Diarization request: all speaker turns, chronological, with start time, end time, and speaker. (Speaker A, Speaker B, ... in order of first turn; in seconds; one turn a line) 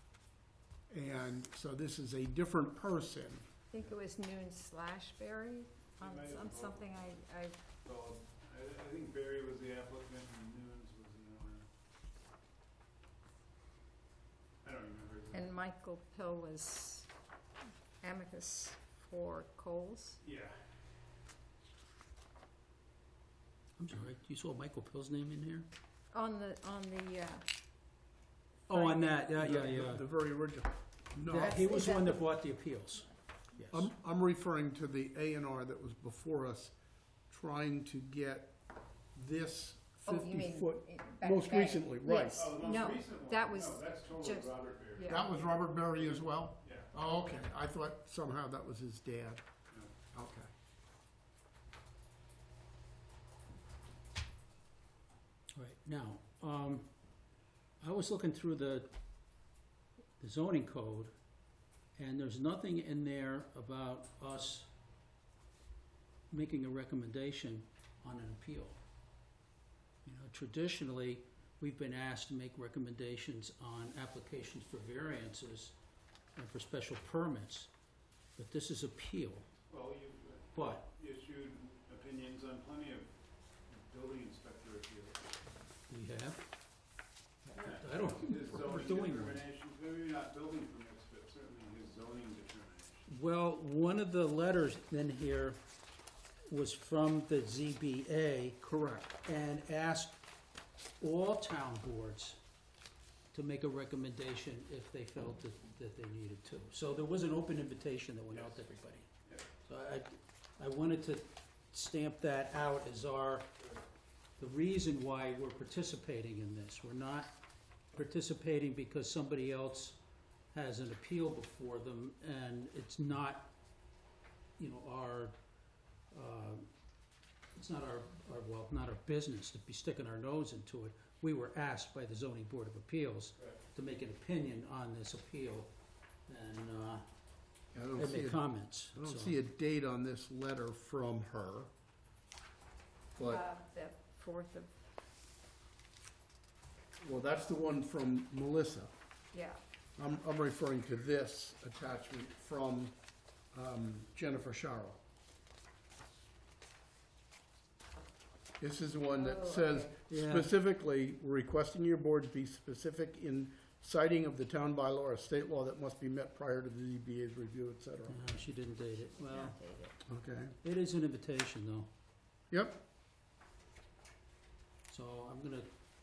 Speaker A: 0.9-3.5
Speaker B: 3.7-7.5
Speaker C: 5.9-7.0
Speaker C: 7.8-11.7
Speaker C: 14.6-15.5
Speaker B: 15.3-17.1
Speaker B: 18.0-20.2
Speaker C: 20.2-20.6
Speaker D: 23.8-25.7
Speaker B: 26.1-27.4
Speaker D: 28.7-30.0
Speaker B: 28.7-29.2
Speaker A: 29.4-31.7
Speaker D: 31.2-33.9
Speaker B: 31.3-32.3
Speaker A: 33.7-36.7
Speaker A: 37.3-38.5
Speaker A: 39.1-42.5
Speaker B: 40.0-45.2
Speaker C: 42.3-46.9
Speaker A: 45.1-49.4
Speaker A: 50.1-50.5
Speaker D: 55.5-56.9
Speaker D: 57.8-58.9
Speaker D: 60.2-61.1
Speaker D: 62.0-64.7
Speaker D: 66.3-68.8
Speaker D: 70.0-75.7
Speaker D: 76.3-77.7
Speaker D: 78.3-79.5
Speaker C: 79.7-83.1
Speaker D: 80.5-80.9
Speaker C: 83.7-85.3
Speaker D: 85.9-86.4
Speaker C: 87.5-93.1
Speaker D: 87.6-89.4
Speaker D: 93.1-95.6
Speaker D: 96.5-98.6
Speaker A: 98.6-99.2
Speaker D: 99.2-100.2
Speaker D: 101.0-102.4
Speaker D: 103.3-109.1
Speaker C: 108.3-108.6
Speaker D: 109.7-113.5
Speaker D: 114.4-117.3
Speaker D: 117.9-120.0
Speaker D: 120.5-123.5
Speaker D: 124.6-125.3
Speaker D: 126.1-126.7
Speaker D: 127.5-135.7
Speaker D: 136.3-137.0
Speaker A: 137.7-141.7
Speaker D: 137.9-139.3
Speaker A: 143.2-143.4
Speaker B: 143.2-144.8
Speaker A: 147.0-148.9
Speaker B: 149.3-149.6
Speaker A: 150.0-152.9
Speaker A: 153.5-155.0
Speaker A: 158.6-168.2
Speaker B: 159.1-159.9
Speaker D: 160.1-160.5
Speaker D: 168.1-169.6
Speaker B: 169.2-169.9
Speaker A: 170.1-170.5
Speaker D: 170.6-171.9
Speaker A: 172.5-172.8
Speaker D: 174.9-175.7